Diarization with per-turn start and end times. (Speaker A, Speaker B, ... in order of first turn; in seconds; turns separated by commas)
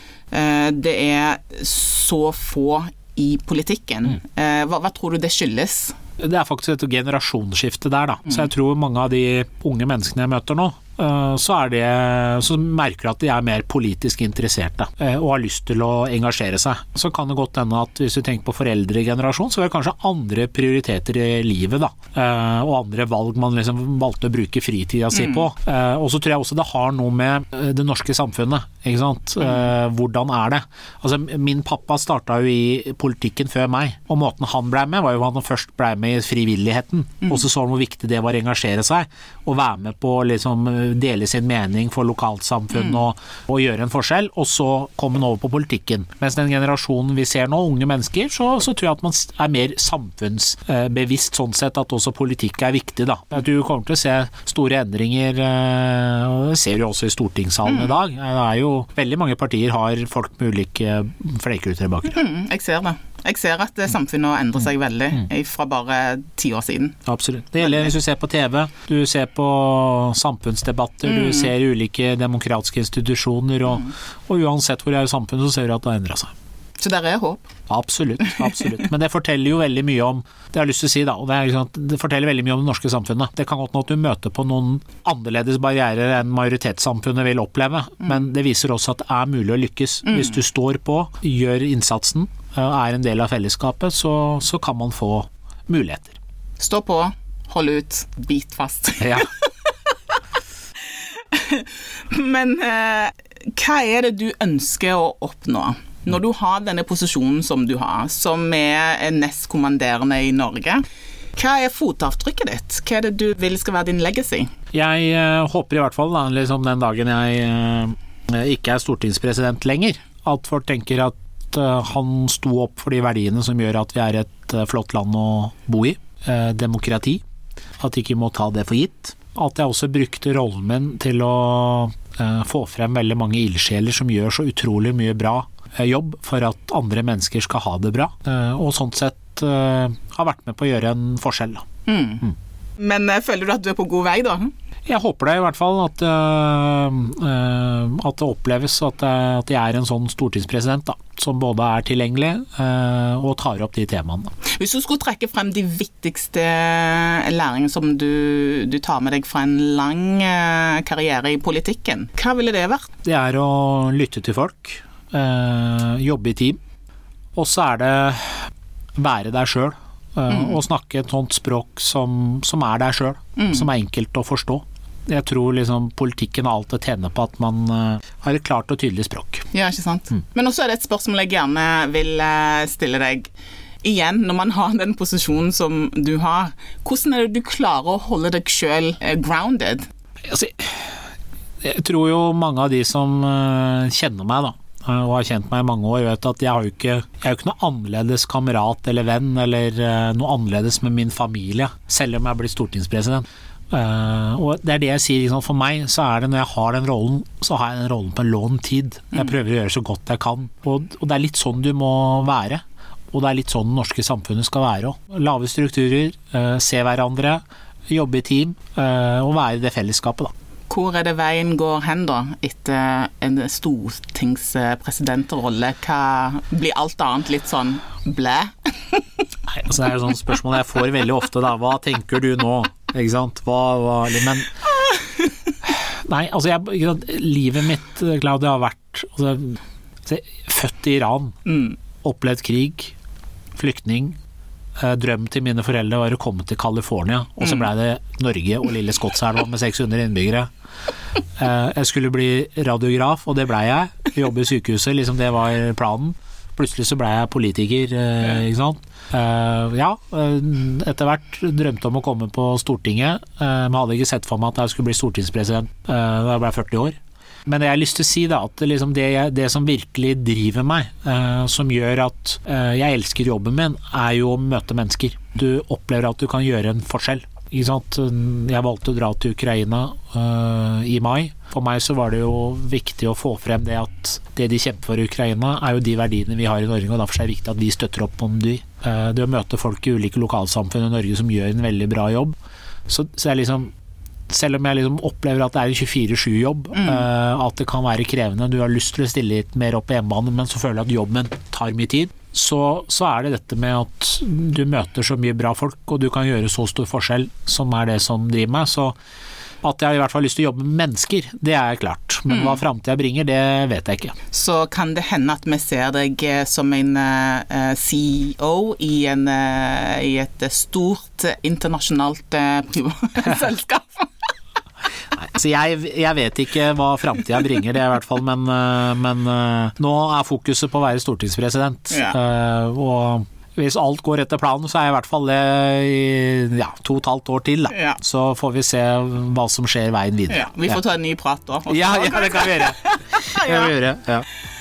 Speaker A: 0.3-6.0, Speaker B: 6.2-62.2, Speaker A: 25.1-25.4, Speaker A: 57.6-57.9, Speaker A: 62.1-67.0, Speaker B: 67.0-76.3, Speaker A: 71.0-71.5, Speaker A: 76.8-77.5, Speaker B: 77.7-96.2, Speaker A: 90.1-90.3, Speaker A: 96.6-99.5, Speaker B: 99.0-99.3, Speaker A: 100.9-110.8, Speaker A: 111.3-114.5, Speaker B: 114.7-127.2, Speaker B: 127.8-141.7, Speaker A: 141.9-142.2, Speaker A: 142.8-144.5, Speaker B: 144.9-154.3, Speaker A: 154.4-162.9, Speaker B: 163.0-166.6, Speaker B: 167.3-179.5, Speaker A: 170.3-170.6, Speaker A: 173.4-173.7, Speaker A: 179.5-183.3, Speaker A: 183.8-189.8, Speaker B: 190.3-191.1, Speaker B: 191.6-220.3, Speaker A: 220.7-229.0, Speaker B: 229.5-234.5, Speaker B: 235.6-241.4, Speaker A: 241.5-241.8, Speaker B: 242.0-242.9, Speaker B: 243.6-244.2, Speaker B: 244.8-250.5, Speaker B: 251.3-292.4, Speaker B: 292.9-293.7, Speaker B: 294.3-308.9, Speaker A: 296.8-297.0, Speaker B: 309.6-314.1, Speaker A: 312.3-312.6, Speaker A: 314.3-324.3, Speaker B: 325.1-340.8, Speaker A: 331.9-332.1, Speaker A: 337.7-338.0, Speaker A: 340.3-343.8, Speaker B: 341.7-344.2